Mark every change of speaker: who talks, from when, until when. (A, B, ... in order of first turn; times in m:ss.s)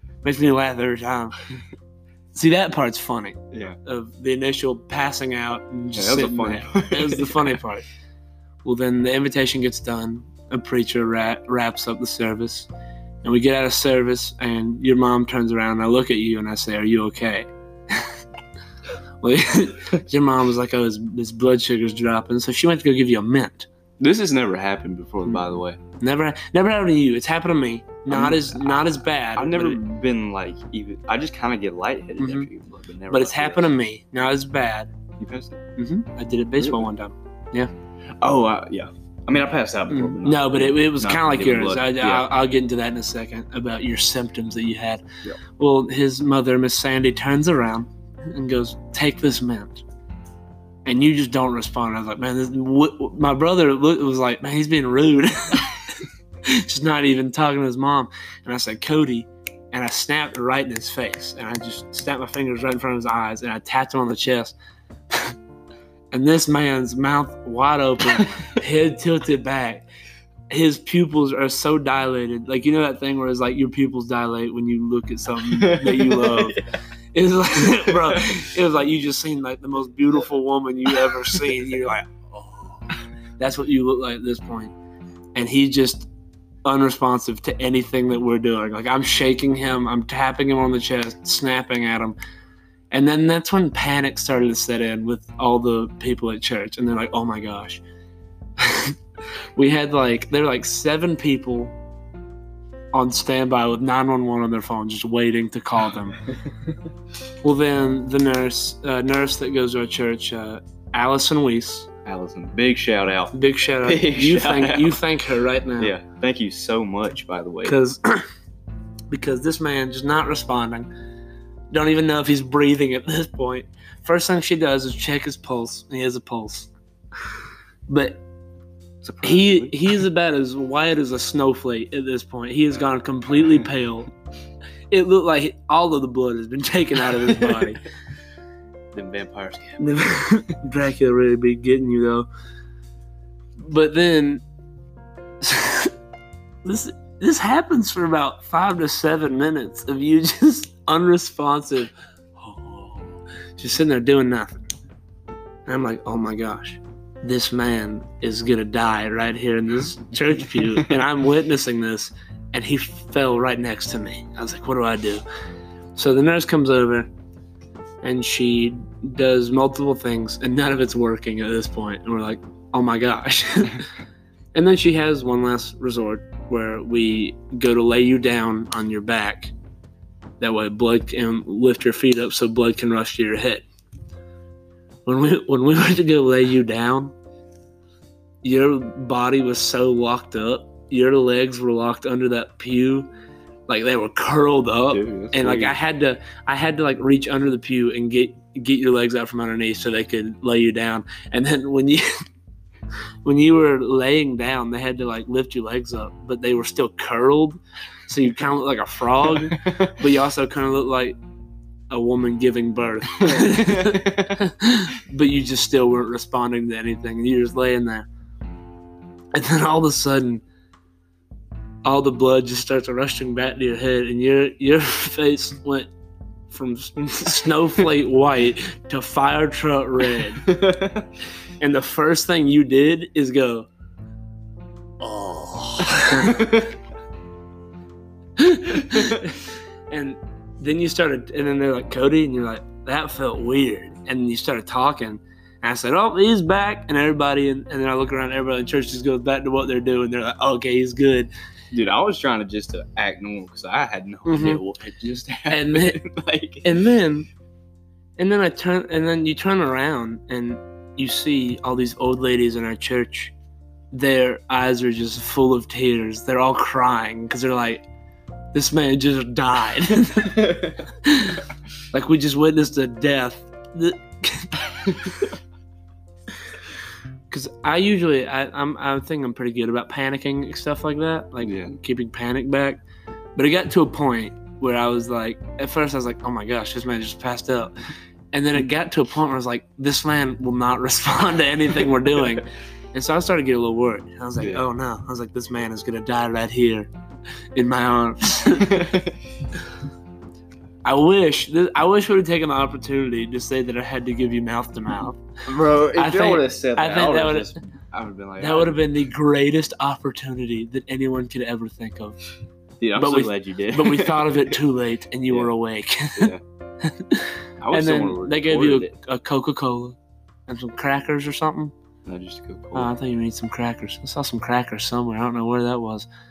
0:00.2-0:01.4 A
0:02.3-0:07.8 A
0:03.5-0:03.8 B
0:06.0-0:07.6 B
0:08.6-0:12.7 A
0:13.2-0:18.1 A
0:19.2-0:23.7 A
0:24.0-0:25.8 B
0:25.2-0:29.8 A
0:28.1-0:33.7 B
0:32.2-0:32.5 A
0:33.1-0:34.9 A
0:35.2-0:35.6 B
0:35.8-0:37.7 A
0:38.2-0:42.3 B
0:39.9-0:45.0 A
0:45.6-0:49.8 A
0:50.9-0:55.8 A
0:56.5-1:04.6 A
1:06.1-1:09.8 A
1:10.5-1:16.6 A
1:15.5-1:16.6 B
1:17.1-1:22.7 A
1:17.9-1:18.4 B
1:23.4-1:24.7 A
1:25.4-1:26.1 A
1:26.6-1:32.2 A
1:32.9-1:37.8 A
1:38.6-1:39.0 A
1:39.6-1:41.7 A
1:42.9-1:46.2 A
1:47.4-1:51.9 A
1:52.0-1:55.0 B
1:53.3-1:55.9 A
1:55.8-1:57.8 B
1:57.6-1:58.3 A
1:59.1-2:00.9 A
2:01.7-2:06.7 A
2:07.9-2:08.2 A
2:09.0-2:09.8 B
2:09.2-2:14.1 A
2:14.9-2:17.8 A
2:17.3-2:17.6 B
2:18.9-2:19.9 B
2:19.8-2:22.3 A
2:23.6-2:24.4 A
2:25.4-2:25.9 A
2:26.6-2:34.6 A
2:35.7-2:45.2 A
2:40.6-2:40.9 B
2:46.0-2:47.1 A
2:48.0-2:53.9 A
2:54.5-2:59.5 A
3:00.4-3:03.6 A
3:05.1-3:07.1 A
3:08.4-3:13.1 A
3:13.7-3:22.1 A
3:14.9-3:15.8 B
3:23.2-3:31.2 A
3:29.4-3:30.0 B
3:31.9-3:38.1 A
3:33.2-3:34.4 B
3:39.3-3:40.4 A
3:41.8-3:45.9 A
3:46.5-3:50.5 A
3:50.4-3:51.1 B
3:51.6-3:53.7 A
3:55.0-3:56.6 A
3:56.1-3:56.7 B
3:58.4-4:11.3 A
3:58.9-3:59.2 B
4:11.7-4:16.8 B
4:14.3-4:14.6 A
4:15.5-4:16.0 A
4:16.6-4:17.3 A
4:18.2-4:23.3 A
4:23.9-4:27.8 A
4:28.5-4:35.3 A
4:30.4-4:30.7 B
4:37.3-4:42.8 A
4:41.4-4:41.8 B
4:43.4-4:47.7 A
4:48.3-4:56.9 A
4:57.6-4:58.9 A
4:58.6-4:59.2 B
5:00.8-5:05.2 A
5:05.5-5:08.8 B
5:05.9-5:07.5 A
5:08.4-5:12.2 A
5:12.8-5:14.6 B
5:13.0-5:20.0 A
5:17.6-5:18.9 B
5:20.5-5:21.7 A
5:22.0-5:22.9 B
5:22.8-5:26.1 A